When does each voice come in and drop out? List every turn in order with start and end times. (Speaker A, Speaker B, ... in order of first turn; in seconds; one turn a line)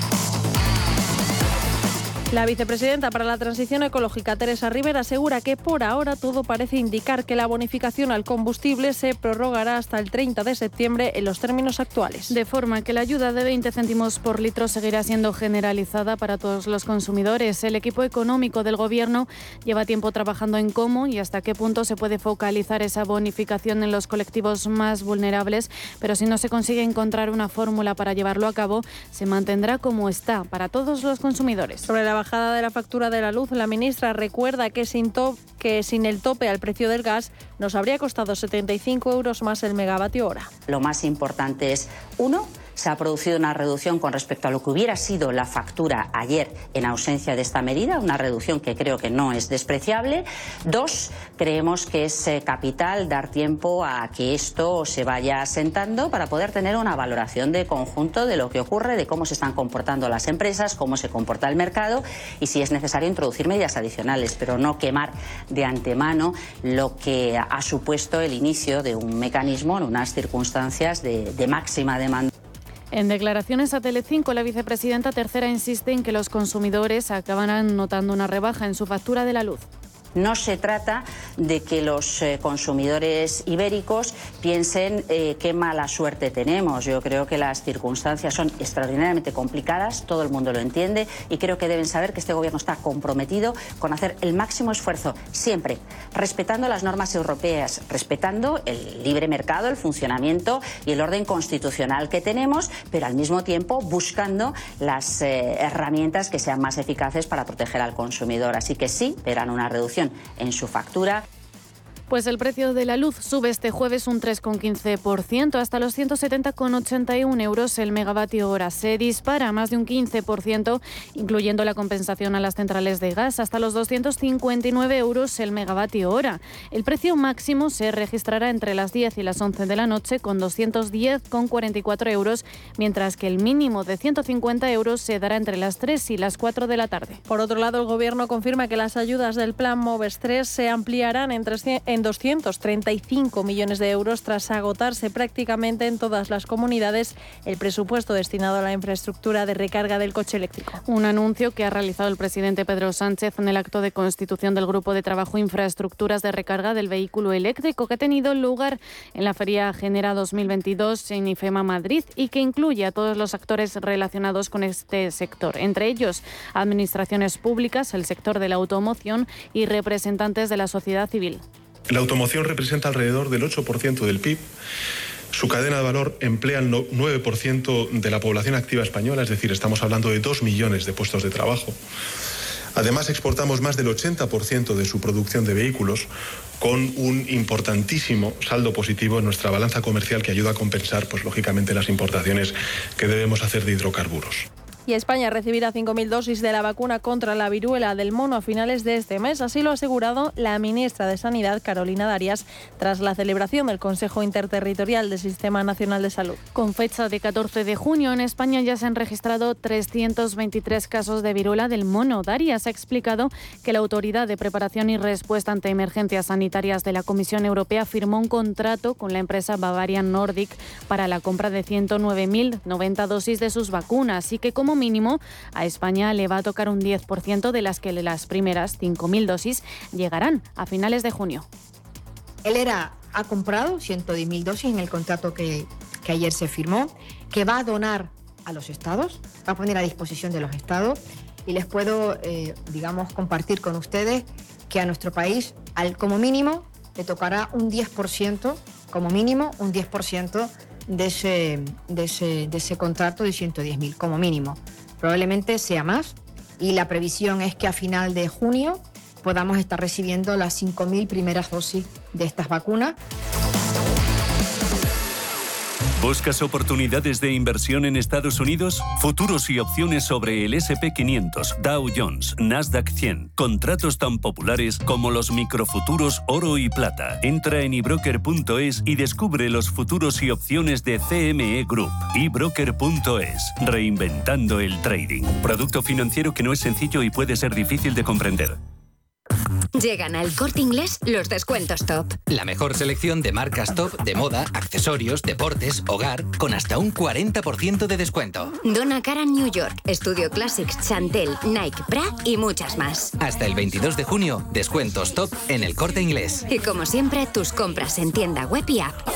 Speaker A: 2.3-12.3
Speaker B: 12.3-31.9
Speaker A: 31.9-40.5
Speaker C: 40.7-72.3
Speaker B: 72.9-79.6
Speaker C: 80.1-111.2
Speaker B: 112.1-137.2
Speaker A: 137.3-150.8
Speaker B: 150.9-171.4
Speaker D: 171.9-174.5
Speaker D: 175.3-181.8
Speaker D: 182.7-194.5
Speaker A: 194.9-206.4
Speaker B: 206.5-231.4
Speaker E: 232.4-263.0
Speaker F: 266.0-288.6
Speaker G: 289.7-292.2
Speaker H: 292.3-298.5
Speaker G: 298.6-303.1
Speaker H: 303.2-306.4
Speaker G: 306.5-308.9